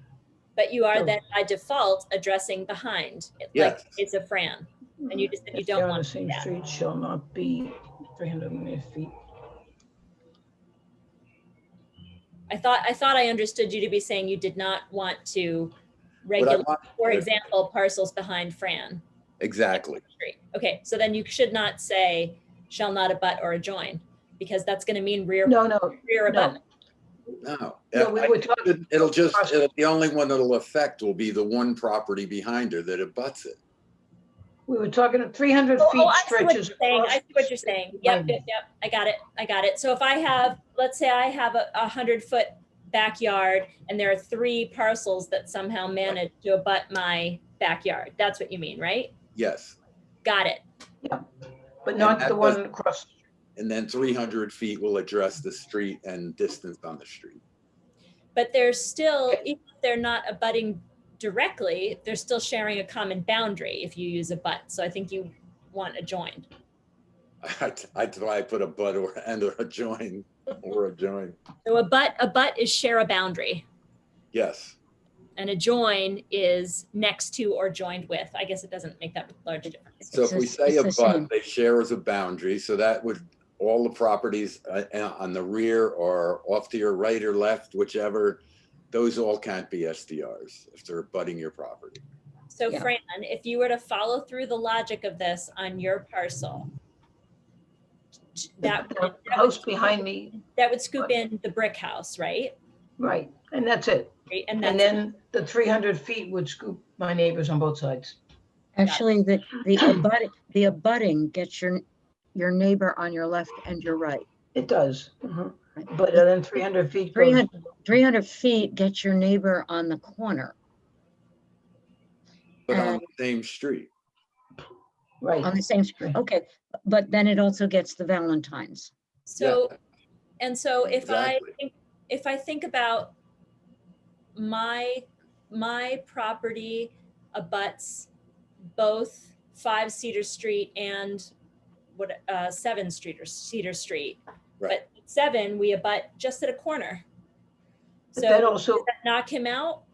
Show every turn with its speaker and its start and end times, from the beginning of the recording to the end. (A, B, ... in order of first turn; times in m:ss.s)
0:00.6-0:06.4 A
0:03.5-0:04.0 B
0:05.0-0:09.1 C
0:12.5-0:15.7 A
0:16.2-0:19.0 A
0:16.4-0:17.2 B
0:19.4-0:20.0 B
0:19.7-0:26.6 A
0:25.4-0:26.6 C
0:27.4-0:33.6 B
0:27.9-0:29.6 C
0:34.7-0:38.4 C
0:35.8-0:49.1 A
0:49.3-0:49.8 B
0:50.2-0:50.6 A
0:51.8-0:53.1 C
0:52.0-0:52.6 B
0:53.6-0:57.4 B
0:58.3-1:06.5 A
1:07.4-1:11.4 B
1:11.6-1:13.6 A
1:14.3-1:14.8 B
1:15.4-1:20.1 A
1:20.1-1:32.0 B
1:20.1-1:21.3 D
1:32.5-1:36.7 A
1:38.4-1:39.7 A
1:38.6-1:40.4 C
1:40.5-1:42.6 A
1:43.0-1:48.2 C
1:44.3-1:45.0 A
1:48.8-1:51.8 D
1:52.3-1:54.2 D
1:54.5-1:57.5 C
1:55.8-1:56.2 D
1:57.1-2:00.5 D
2:02.7-2:03.9 B
2:02.7-2:03.0 D
2:05.2-2:06.2 C
2:05.4-2:08.9 D
2:09.3-2:09.7 A
2:09.4-2:09.7 B
2:10.4-2:13.1 A
2:11.0-2:11.5 B
2:14.4-2:18.1 A
2:18.7-2:21.3 A
2:21.9-2:27.0 A
2:28.1-2:29.8 A
2:28.2-2:28.9 C